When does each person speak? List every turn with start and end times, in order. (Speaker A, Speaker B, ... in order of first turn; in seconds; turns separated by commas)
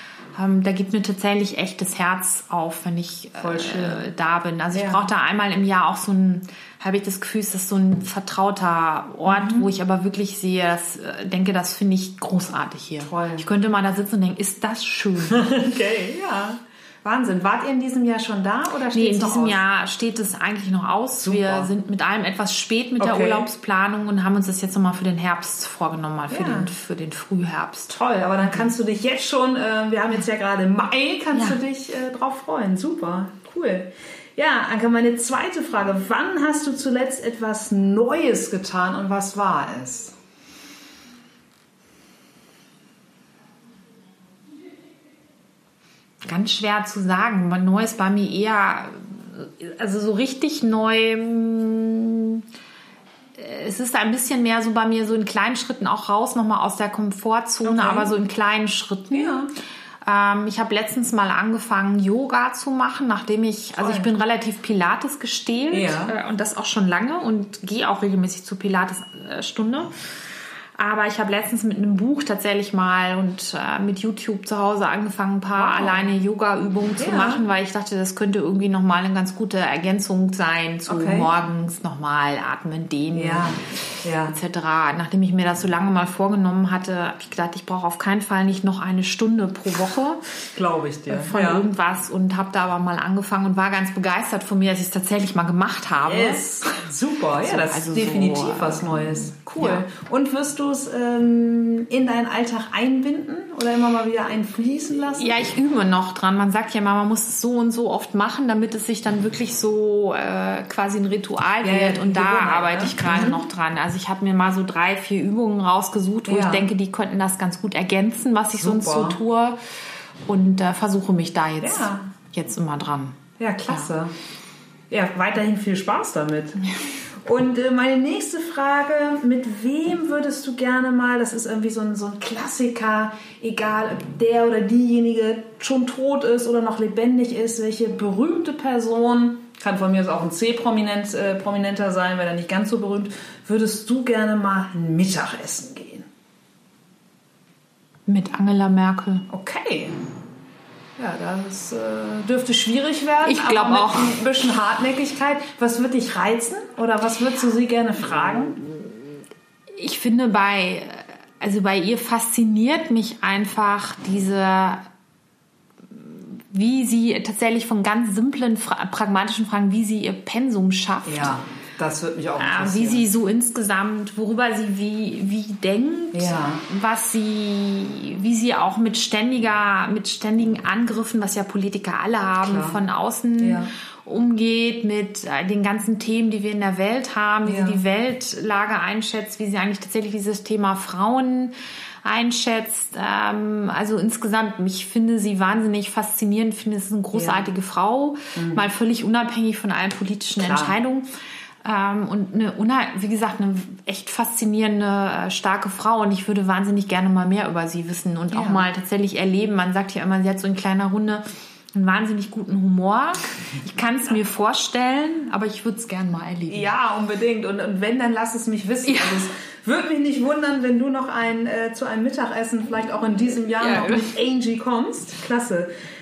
Speaker A: 0.3-15.5, Speaker B: 3.4-4.1, Speaker B: 4.7-5.1, Speaker B: 9.3-9.7, Speaker B: 13.0-13.5, Speaker B: 15.3-19.6, Speaker A: 18.9-28.0, Speaker B: 21.2-21.7, Speaker B: 23.0-23.5, Speaker B: 26.3-26.7, Speaker B: 27.9-40.1, Speaker A: 31.3-31.6, Speaker A: 46.3-52.5, Speaker A: 53.4-59.5, Speaker B: 57.6-58.1, Speaker B: 59.1-59.5, Speaker A: 60.0-70.1, Speaker B: 63.8-64.1, Speaker B: 65.7-66.1, Speaker A: 70.8-90.4, Speaker B: 75.6-76.1, Speaker B: 77.0-77.4, Speaker B: 80.9-81.3, Speaker B: 83.1-84.4, Speaker B: 90.5-91.7, Speaker A: 91.1-96.4, Speaker B: 96.0-105.4, Speaker A: 97.4-99.8, Speaker A: 105.2-119.6, Speaker B: 111.6-113.4, Speaker B: 116.3-116.7, Speaker B: 118.6-119.2, Speaker A: 120.3-123.9, Speaker B: 121.6-122.1, Speaker B: 123.4-124.1, Speaker B: 124.9-126.6, Speaker B: 127.2-146.1, Speaker A: 148.1-149.3, Speaker B: 149.3-150.0, Speaker B: 151.0-158.6, Speaker A: 153.2-154.2, Speaker A: 159.7-164.9, Speaker A: 165.9-171.3, Speaker B: 171.1-173.0, Speaker A: 172.4-201.1, Speaker B: 176.1-176.6, Speaker B: 182.4-182.8, Speaker B: 183.4-183.7, Speaker B: 187.5-187.8, Speaker B: 197.1-197.4, Speaker B: 198.4-198.6, Speaker B: 200.4-200.7, Speaker A: 201.6-216.7, Speaker B: 208.3-208.6, Speaker B: 216.5-225.7, Speaker A: 218.9-219.3, Speaker A: 223.6-224.1